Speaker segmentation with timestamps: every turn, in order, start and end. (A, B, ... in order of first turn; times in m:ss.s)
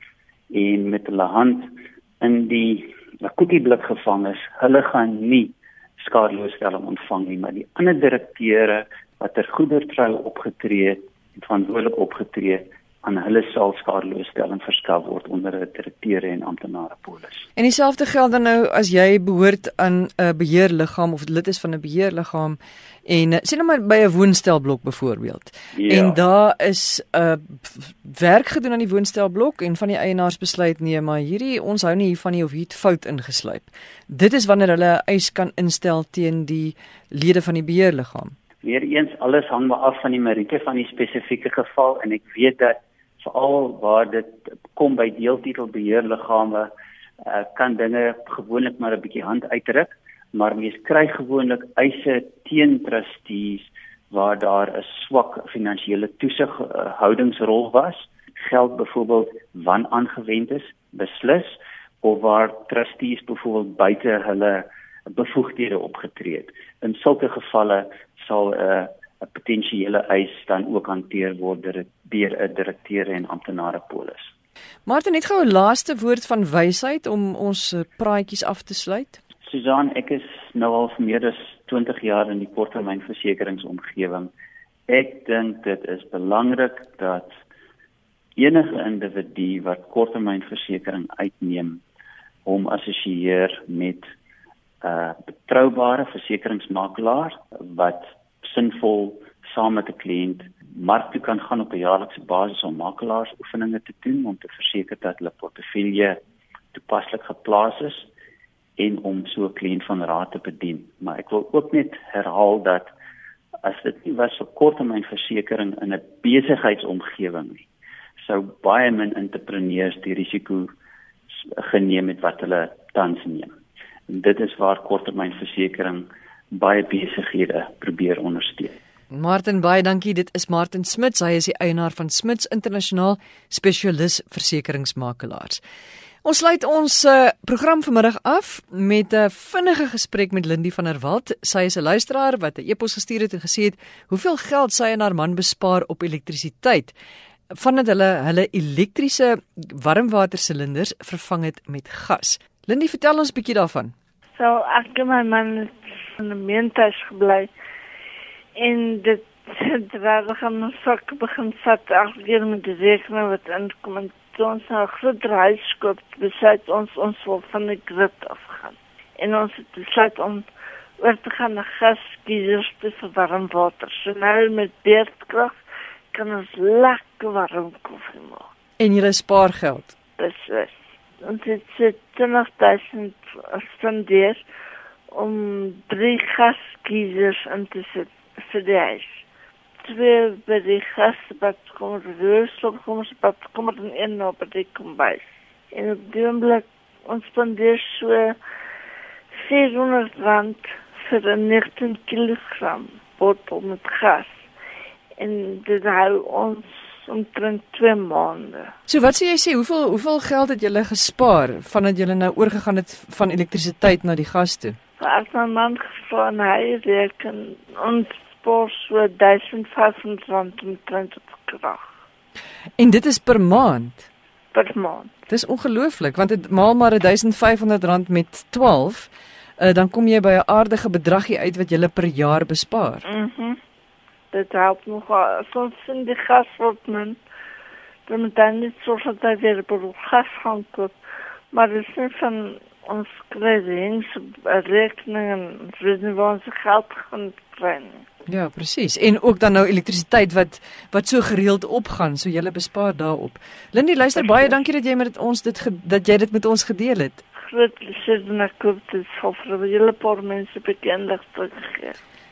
0:00.5-0:17.4 A
0:17.6-0:38.3 B
0:25.7-0:26.2 A
0:38.6-0:46.7 A
0:47.2-1:14.3 A
1:14.8-1:19.2 B
1:19.4-1:24.3 A
1:24.9-1:27.3 A
1:28.4-1:31.8 A
1:32.4-1:34.1 A
1:34.8-1:46.2 A
1:46.7-1:48.1 A
1:48.8-1:52.9 A
1:53.6-1:57.6 A
1:58.2-2:00.7 A
2:01.3-2:03.5 A
2:04.1-2:08.8 A
2:09.1-2:15.6 B
2:16.2-2:26.9 B
2:27.5-2:33.9 B
2:34.4-2:37.5 C
2:38.6-2:50.4 C
2:51.0-2:55.6 C
2:56.1-2:58.5 C
2:58.8-2:59.9 B
3:00.2-3:04.4 C
3:05.1-3:09.2 C
3:09.8-3:18.4 C
3:19.3-3:24.4 C
3:25.2-3:28.7 C
3:28.9-3:34.8 B
3:35.0-3:41.9 C
3:42.8-3:44.1 B
3:44.5-3:45.1 C
3:45.3-3:53.0 B
3:53.0-3:53.6 C
3:54.3-3:57.2 C
3:58.1-4:00.9 C
4:01.5-4:08.0 C
4:08.3-4:17.2 B
4:17.4-4:22.0 C